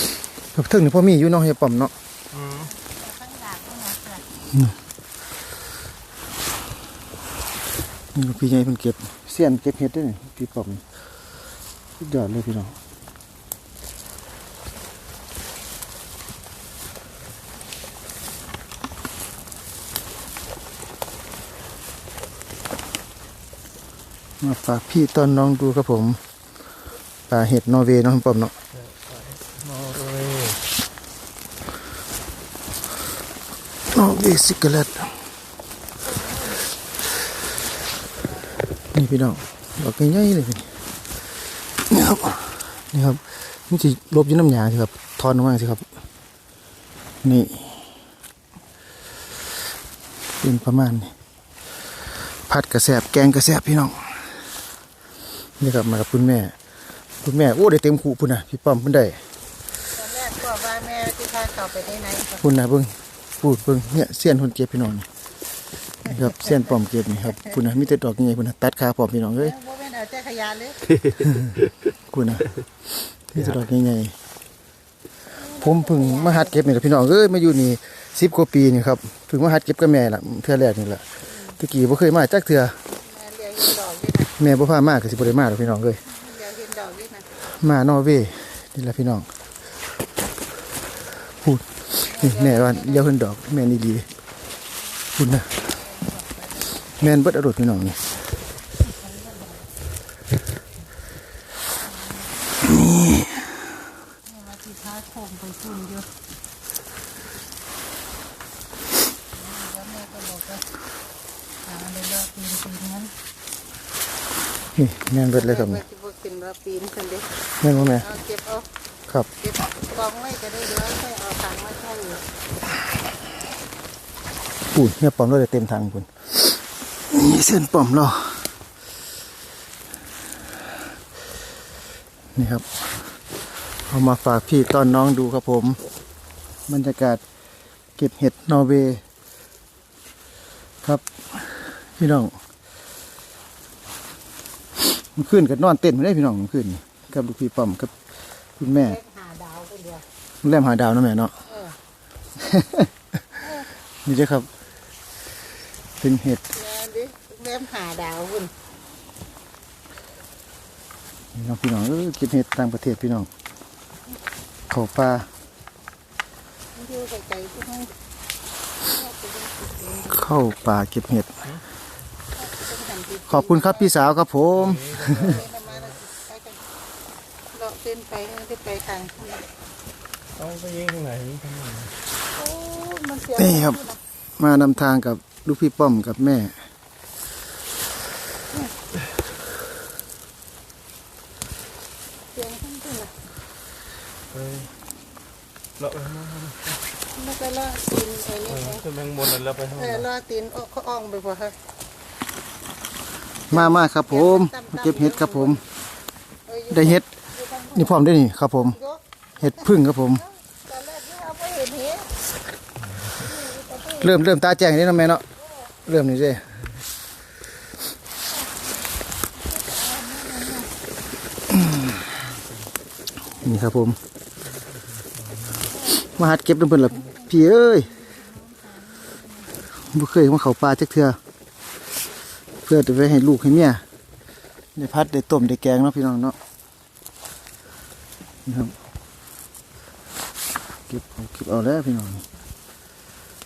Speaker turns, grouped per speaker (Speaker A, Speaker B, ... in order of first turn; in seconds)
Speaker A: 0.5-1.9, 8.1-10.8, 12.0-12.7, 24.4-26.2, 27.3-28.5, 33.9-35.1, 38.9-40.7, 41.9-45.8, 47.2-47.8, 50.4-51.1, 52.5-54.3, 55.6-56.5, 57.2-59.2, 62.4-65.1, 66.0-69.5, 71.2-71.5, 72.1-72.5, 73.3-74.1, 75.6-81.0, 81.6-82.8, 84.3-86.0, 87.5-89.3, 91.4-94.1, 95.1-95.6, 97.0-98.0, 102.7-103.3, 114.8-115.8, 117.6-118.0, 124.7-126.3, 127.1-128.4, 132.3-132.7, 133.9-135.8, 136.7-137.2, 138.0-139.0, 140.8-142.3, 145.1-147.9, 148.6-149.0, 150.4-151.3, 152.4-152.9, 154.0-154.5, 156.0-156.4, 161.3-163.3, 164.7-165.3, 170.1-171.5, 173.3-175.4, 183.4-183.8, 184.4-186.5, 203.5-205.6, 206.7-207.0, 207.7-208.8, 209.4-210.2, 214.0-215.2, 215.8-216.4, 223.4-224.0, 226.0-227.9, 229.8-231.2, 232.7-233.8, 234.8-236.3, 238.4-238.7, 240.9-242.2
Speaker B: 2.4-4.2, 36.1-36.6, 59.9-62.4, 69.4-70.9, 75.3-76.6, 82.9-84.3, 86.0-87.3, 92.0-93.0, 95.6-96.7, 98.9-99.5, 102.0-102.7, 104.2-106.1, 109.3-110.7, 111.6-113.1, 115.3-118.7, 119.4-122.2, 148.8-150.0, 151.5-151.8, 156.5-158.5, 166.7-167.9, 168.8-170.3, 172.3-174.0, 175.1-176.6, 177.5-179.4, 182.3-184.0, 192.3-193.1, 197.1-198.9, 199.7-201.6, 203.5-205.6, 206.5-208.0, 208.7-212.2, 213.2-214.1, 219.3-220.7, 225.7-226.0, 227.0-229.7
Speaker C: 29.3-30.6, 180.3-181.9, 194.3-194.7, 195.8-196.7, 199.0-199.7